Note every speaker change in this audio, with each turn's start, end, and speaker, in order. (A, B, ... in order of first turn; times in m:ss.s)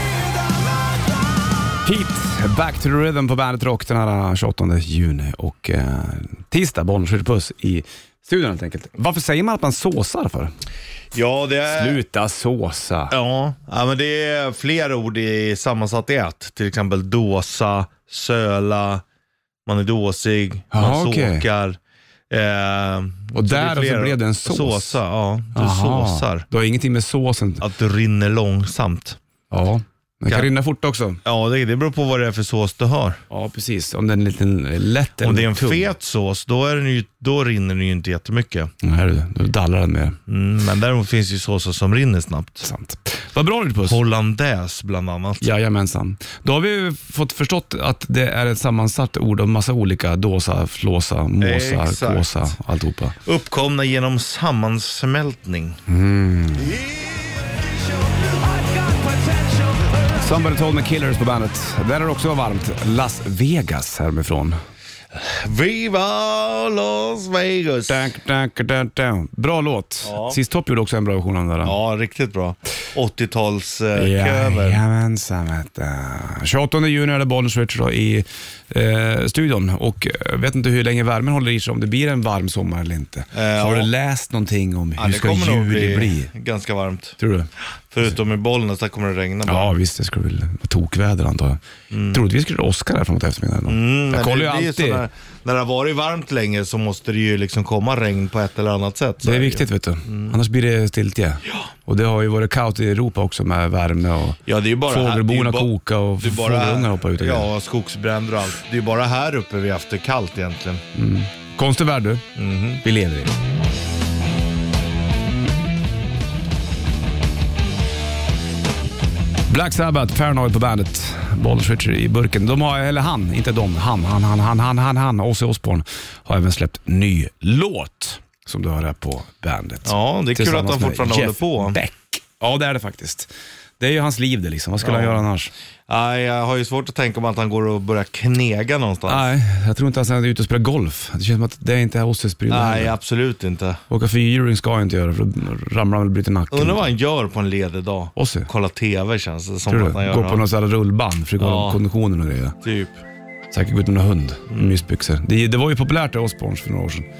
0:01.8-0:10.5 A
0:11.1-0:12.0 B
0:11.7-0:13.2 A
0:13.1-0:19.0 B
0:19.7-0:21.8 B
0:20.7-0:21.4 A
0:22.3-0:26.4 B
0:23.3-0:25.0 A
0:25.6-0:27.6 A
0:27.6-0:29.2 B
0:29.5-0:31.2 A
0:31.2-0:33.2 B
0:33.3-0:35.9 A
0:35.2-0:38.7 B
0:38.8-0:40.2 A
0:40.3-0:42.7 B
0:42.6-0:44.0 A
0:43.8-0:45.5 B
0:45.4-0:53.2 A
0:51.4-0:52.5 B
0:53.2-0:55.8 B
0:55.9-0:56.8 A
1:00.2-1:04.6 A
1:05.1-1:08.1 B
1:07.9-1:11.8 A
1:10.0-1:10.4 B
1:11.6-1:14.8 B
1:14.0-1:26.3 A
1:23.3-1:23.9 B
1:25.0-1:27.2 B
1:27.2-1:27.5 A
1:27.9-1:29.7 B
1:29.5-1:35.0 A
1:31.9-1:32.2 B
1:33.7-1:40.4 B
1:39.2-1:47.5 A
1:44.5-1:50.8 B
1:51.0-1:52.2 A
1:52.4-1:52.8 B
1:52.8-1:53.4 A
1:59.5-2:15.5 A
2:09.8-2:11.8 B
2:14.8-2:15.3 B
2:15.9-2:19.3 B
2:19.1-2:22.9 A
2:22.5-2:23.8 B
2:23.9-2:26.9 A
2:26.5-2:30.4 B
2:28.2-2:28.5 A
2:29.7-2:32.6 A
2:31.4-2:31.8 B
2:32.6-2:33.0 B
2:33.5-2:37.1 A
2:34.5-2:34.8 B